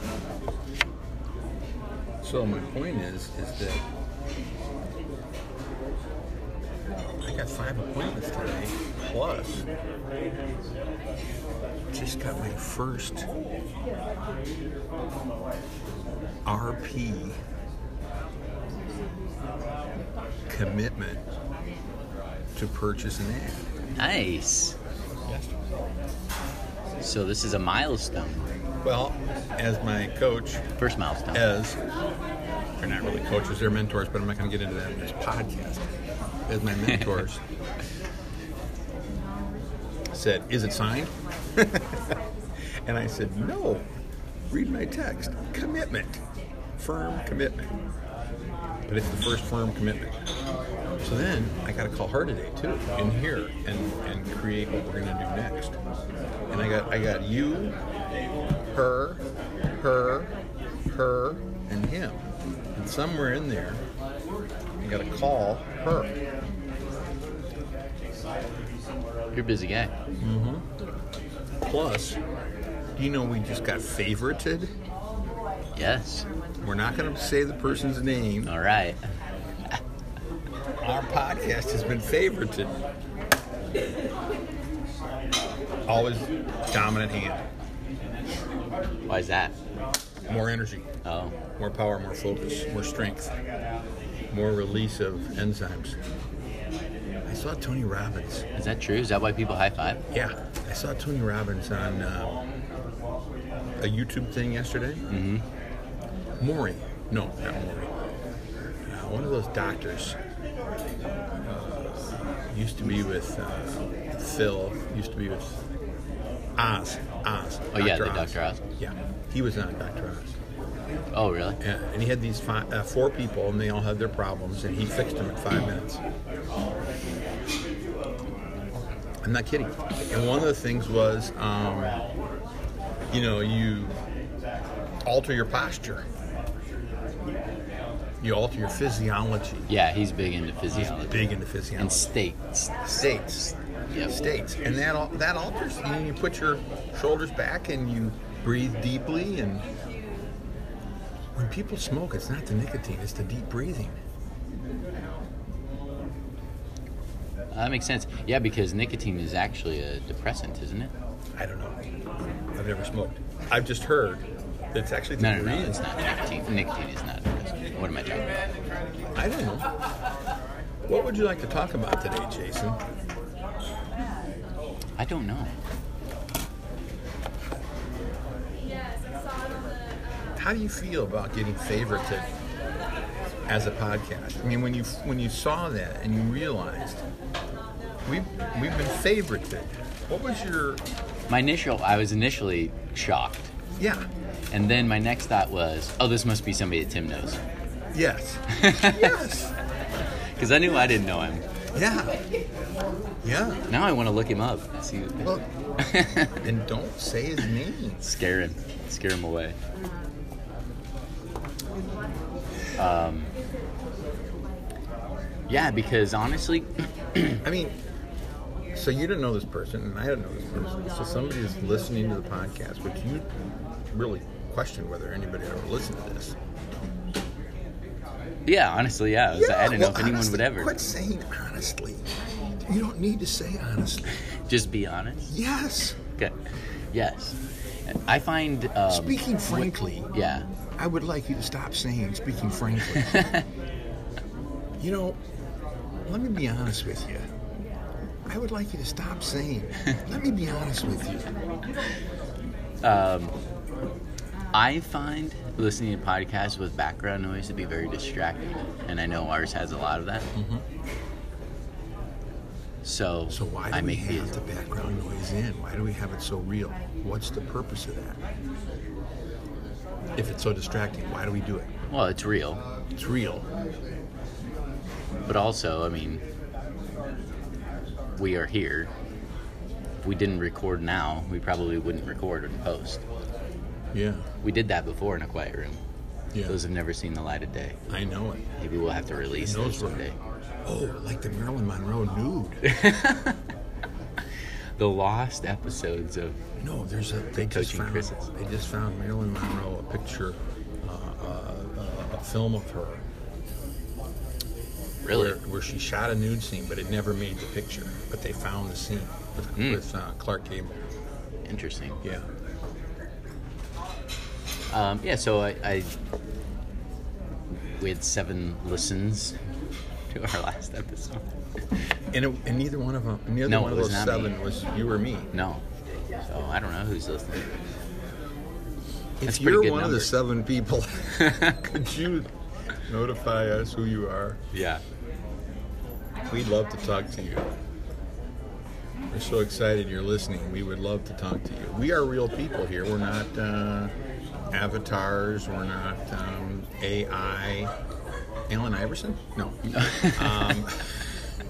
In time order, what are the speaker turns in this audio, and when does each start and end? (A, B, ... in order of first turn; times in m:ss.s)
0:02.2-0:03.8 A
0:07.2-0:09.6 A
0:11.9-0:13.3 A
0:16.4-0:17.4 A
0:20.5-0:21.2 A
0:22.5-0:23.7 A
0:24.0-0:24.8 B
0:25.2-0:25.5 A
0:27.0-0:28.5 B
0:28.8-0:30.6 A
0:30.8-0:31.4 B
0:31.3-0:31.8 A
0:32.8-0:35.9 A
0:36.5-0:37.4 A
0:40.1-0:43.9 A
0:44.5-0:46.2 A
0:46.8-0:47.8 A
0:48.9-0:50.2 A
0:51.0-0:55.8 A
0:56.5-0:57.8 A
0:58.7-0:59.2 A
0:59.7-1:00.3 A
1:00.9-1:02.2 A
1:02.7-1:03.8 A
1:04.8-1:06.2 A
1:09.3-1:09.9 B
1:10.2-1:10.6 A
1:11.6-1:12.2 A
1:13.0-1:14.7 A
1:15.8-1:16.3 B
1:16.6-1:18.5 A
1:18.4-1:19.0 B
1:20.8-1:22.8 A
1:25.9-1:27.4 A
1:29.1-1:29.5 B
1:30.3-1:30.9 A
1:31.0-1:31.4 B
1:31.6-1:33.4 A
1:34.3-1:36.0 A
1:37.2-1:38.4 A
1:38.6-1:40.0 B
1:40.1-1:42.4 A
1:43.8-1:45.0 A
1:45.1-1:45.4 B
1:46.4-1:48.0 A
1:48.8-1:50.2 A
1:51.4-1:55.6 A
1:56.6-2:00.4 A
1:57.7-1:58.6 B
2:01.1-2:01.6 B
2:01.6-2:06.0 A
2:09.2-2:12.0 A
2:13.1-2:14.0 A
2:15.0-2:16.0 A
2:18.2-2:19.7 A
2:19.7-2:24.1 B
2:20.7-2:22.1 A
2:22.9-2:23.4 A
2:24.0-2:29.7 A
2:31.3-2:34.0 A
2:37.5-2:40.9 B
2:41.4-2:41.9 A
2:42.5-2:45.9 A
2:45.2-2:48.4 B
2:49.1-2:49.7 A
2:50.8-2:52.8 A
2:55.0-2:55.5 B
3:00.4-3:02.3 A
3:03.5-3:07.0 A
3:08.0-3:10.8 A
3:11.3-3:13.5 B
3:13.8-3:14.1 A
3:14.5-3:17.4 B
3:17.9-3:19.5 A
3:18.5-3:19.3 B
3:20.4-3:21.4 B
3:21.7-3:22.2 A
3:23.2-3:23.6 A
3:23.7-3:26.4 B
3:26.4-3:28.1 A
3:28.0-3:29.6 B
3:32.8-3:33.3 B
3:35.5-3:37.4 B
3:37.4-3:37.8 A
3:38.7-3:43.3 A
3:43.9-3:46.4 A
3:48.4-3:50.8 B
3:49.3-3:52.1 A
3:52.6-3:54.2 A
3:54.2-3:55.3 B
3:55.3-3:56.0 A
3:56.9-3:57.4 B
3:57.9-4:00.5 B
3:58.9-4:00.1 A
4:00.8-4:03.4 A
4:03.0-4:03.4 B
4:04.8-4:05.2 A
4:06.0-4:07.3 A
4:08.3-4:11.3 A
4:12.8-4:13.3 B
4:14.5-4:20.3 B
4:20.3-4:20.6 A
4:22.8-4:24.3 B
4:23.3-4:28.2 A
4:30.2-4:31.7 A
4:31.9-4:32.6 B
4:32.9-4:33.4 A
4:35.3-4:36.2 B
4:38.2-4:38.9 B
4:40.0-4:43.0 B
4:43.9-4:44.2 A
4:44.4-4:45.8 B
4:46.3-4:46.6 A
4:46.4-4:47.8 B
4:47.9-4:48.4 A
4:48.6-4:50.2 B
4:49.4-4:50.0 A
4:50.6-4:52.6 A
4:52.6-4:53.4 B
4:54.8-4:56.4 B
4:56.6-5:03.0 A
4:57.5-4:58.1 B
5:05.0-5:05.4 B
5:05.1-5:10.8 A
5:11.5-5:12.0 B
5:12.0-5:12.3 A
5:14.7-5:15.9 B
5:17.8-5:19.4 B
5:20.1-5:21.2 B
5:22.1-5:25.3 A
5:23.4-5:24.3 B
5:25.3-5:25.6 B
5:26.2-5:27.5 B
5:29.2-5:32.3 A
5:29.2-5:30.1 B
5:31.2-5:31.6 B
5:32.8-5:34.4 A
5:34.5-5:34.8 B
5:36.3-5:37.5 A
5:39.1-5:43.9 A
5:44.5-5:47.7 A
5:48.5-5:51.1 A
5:49.7-5:50.7 B